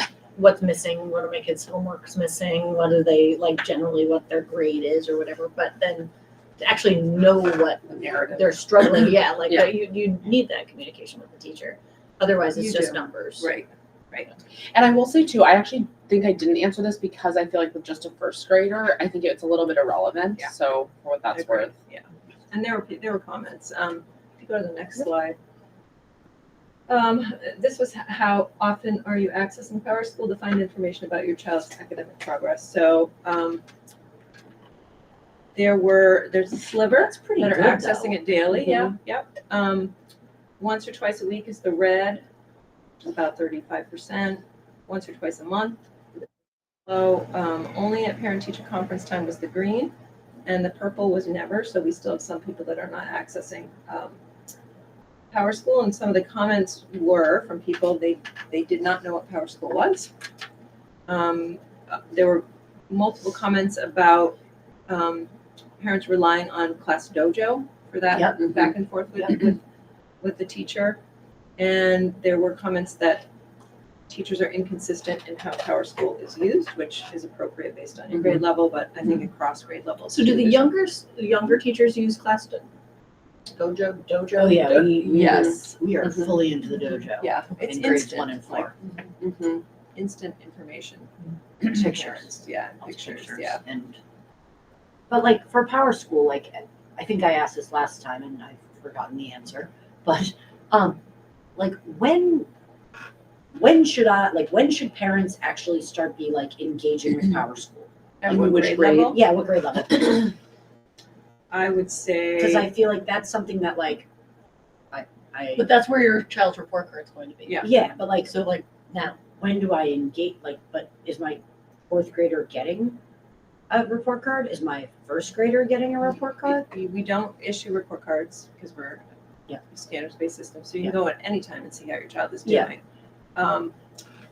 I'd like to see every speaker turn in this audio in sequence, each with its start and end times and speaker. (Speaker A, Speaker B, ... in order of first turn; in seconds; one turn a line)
Speaker A: 0.4-13.5
Speaker B: 12.6-14.3
Speaker C: 14.7-21.8
Speaker B: 21.3-25.4
Speaker B: 26.9-33.6
Speaker B: 35.5-39.9
Speaker D: 36.9-39.0
Speaker B: 40.6-42.2
Speaker B: 43.0-45.8
Speaker B: 46.9-49.9
Speaker B: 50.5-54.2
Speaker B: 55.3-60.1
Speaker B: 61.1-64.4
Speaker B: 64.9-69.6
Speaker B: 70.2-71.0
Speaker B: 71.6-73.3
Speaker B: 74.1-80.7
Speaker A: 80.1-82.7
Speaker A: 83.5-85.3
Speaker D: 84.4-88.7
Speaker B: 85.0-85.8
Speaker B: 87.2-89.1
Speaker C: 89.2-89.6
Speaker B: 90.0-93.6
Speaker D: 91.6-92.3
Speaker D: 92.8-94.0
Speaker D: 95.1-101.0
Speaker D: 101.6-102.5
Speaker D: 103.5-110.3
Speaker B: 108.2-109.2
Speaker C: 108.3-109.2
Speaker B: 111.5-112.7
Speaker D: 112.4-114.1
Speaker D: 114.9-115.7
Speaker A: 115.6-117.7
Speaker B: 117.5-117.7
Speaker D: 117.6-123.0
Speaker D: 123.7-126.7
Speaker B: 126.4-129.0
Speaker B: 129.6-132.8
Speaker D: 132.4-132.7
Speaker B: 133.4-133.8